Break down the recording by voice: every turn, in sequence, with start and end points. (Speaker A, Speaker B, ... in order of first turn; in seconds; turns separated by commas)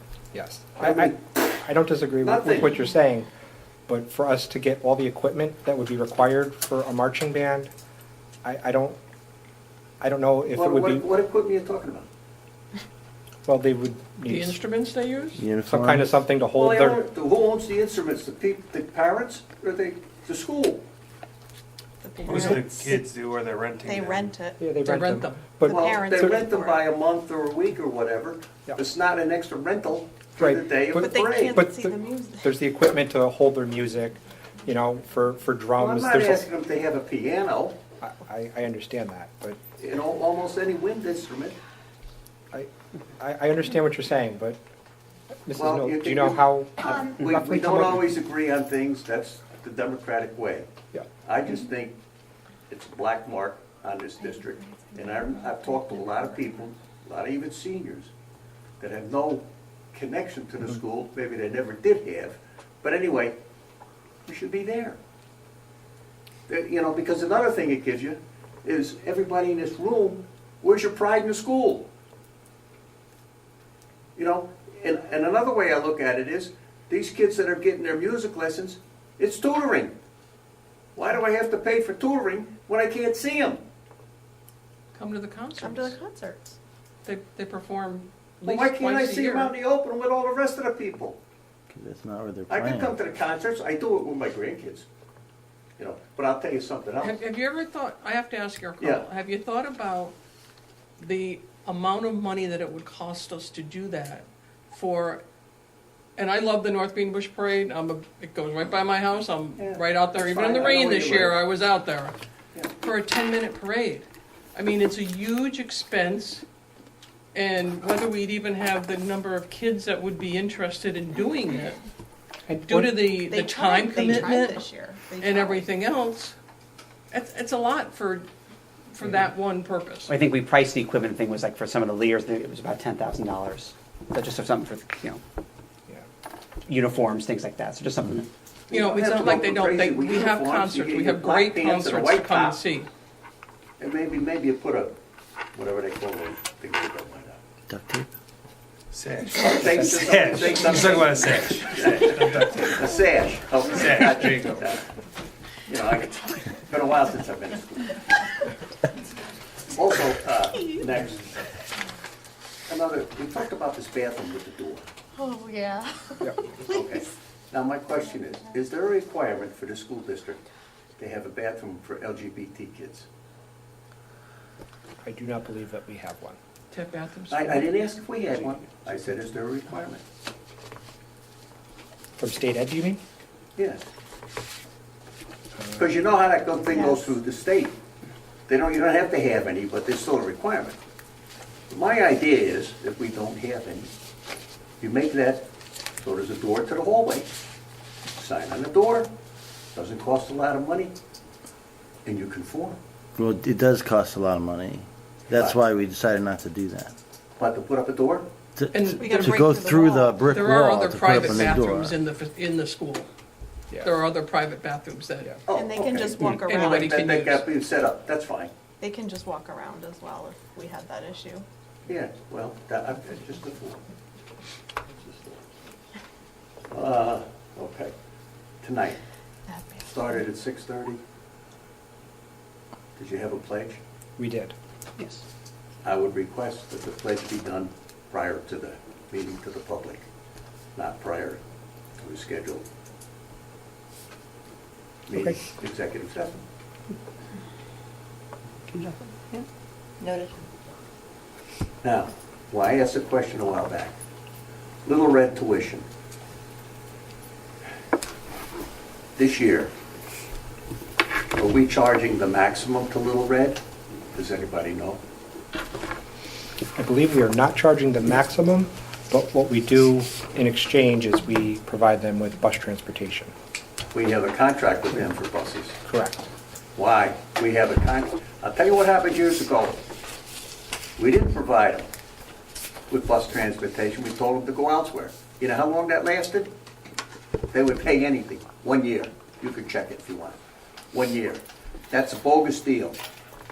Speaker A: 0.3-3.3, Speaker B: 0.8-1.2, Speaker B: 2.2-2.7, Speaker A: 3.9-7.7, Speaker A: 8.4-9.0, Speaker A: 10.0-11.1, Speaker B: 10.5-12.1, Speaker A: 13.5-14.6, Speaker C: 14.3-15.4, Speaker D: 15.4-16.1, Speaker A: 15.7-17.1, Speaker B: 16.5-20.8, Speaker E: 22.0-23.0, Speaker F: 22.2-24.4, Speaker E: 23.8-24.6, Speaker A: 24.6-26.4, Speaker C: 24.8-25.4, Speaker B: 25.7-31.6, Speaker E: 25.7-26.8, Speaker A: 30.4-36.4, Speaker E: 31.0-32.5, Speaker B: 35.8-37.8, Speaker A: 38.0-39.6, Speaker B: 39.8-41.6, Speaker A: 42.5-44.6, Speaker A: 45.5-48.1, Speaker B: 45.6-50.7, Speaker B: 51.2-52.0, Speaker B: 52.7-58.1, Speaker E: 54.7-55.2, Speaker B: 58.8-63.4, Speaker B: 64.3-65.0, Speaker B: 66.5-71.9, Speaker B: 74.2-80.0, Speaker B: 81.0-83.6, Speaker C: 84.9-86.0, Speaker E: 85.6-86.6, Speaker C: 87.0-89.5, Speaker B: 88.4-91.2, Speaker D: 91.7-93.0, Speaker B: 92.5-94.9, Speaker B: 95.8-97.2, Speaker C: 97.0-100.1, Speaker B: 98.8-99.1, Speaker C: 101.0-105.2, Speaker C: 106.2-112.2, Speaker B: 109.6-111.4, Speaker C: 112.8-116.4, Speaker C: 117.3-121.8, Speaker A: 122.5-123.0, Speaker C: 122.7-124.6, Speaker E: 123.3-125.7, Speaker C: 125.2-126.3, Speaker C: 127.1-128.3, Speaker C: 128.9-130.1, Speaker G: 130.1-135.2, Speaker G: 136.7-138.3, Speaker B: 138.7-142.6, Speaker C: 138.7-142.9, Speaker B: 143.8-144.9, Speaker B: 145.5-147.4, Speaker D: 147.7-148.1, Speaker F: 148.9-153.1, Speaker B: 149.4-154.8, Speaker A: 149.6-150.8, Speaker F: 153.7-154.6, Speaker B: 155.7-158.0, Speaker B: 159.7-161.2, Speaker B: 162.7-164.9, Speaker E: 165.2-167.0, Speaker B: 166.7-170.4, Speaker B: 171.0-173.1, Speaker A: 175.0-176.4, Speaker C: 176.7-177.7, Speaker B: 177.3-180.0, Speaker A: 182.2-183.0, Speaker B: 183.6-183.8, Speaker B: 185.8-187.8, Speaker B: 188.5-190.8, Speaker B: 191.7-193.9, Speaker B: 194.8-195.5, Speaker B: 196.0-197.3, Speaker B: 198.2-199.1, Speaker B: 199.8-200.9, Speaker B: 202.1-202.8, Speaker D: 203.2-206.9, Speaker B: 205.3-205.6, Speaker B: 207.4-208.3, Speaker D: 208.6-211.9, Speaker C: 208.7-209.5, Speaker E: 209.0-210.4, Speaker C: 210.3-213.1, Speaker C: 213.8-215.3, Speaker B: 215.5-218.5, Speaker E: 215.5-216.9, Speaker C: 216.2-217.4, Speaker E: 218.8-221.4, Speaker B: 221.9-223.8, Speaker B: 225.0-225.4, Speaker B: 226.7-227.9, Speaker B: 228.6-229.0, Speaker E: 229.5-229.9, Speaker B: 229.9-231.0, Speaker B: 233.0-233.8, Speaker A: 234.2-234.5, Speaker B: 235.8-240.1, Speaker B: 240.8-241.4, Speaker B: 242.0-242.7, Speaker B: 245.1-246.4, Speaker G: 248.7-249.4, Speaker B: 251.8-254.0, Speaker B: 254.8-255.8, Speaker B: 259.2-259.7, Speaker B: 261.4-263.6, Speaker B: 264.1-265.0, Speaker A: 266.8-273.3, Speaker B: 273.9-275.8, Speaker A: 275.9-276.3, Speaker B: 276.8-279.8, Speaker B: 281.0-281.9, Speaker B: 282.9-286.5, Speaker B: 287.5-290.4, Speaker B: 290.9-293.0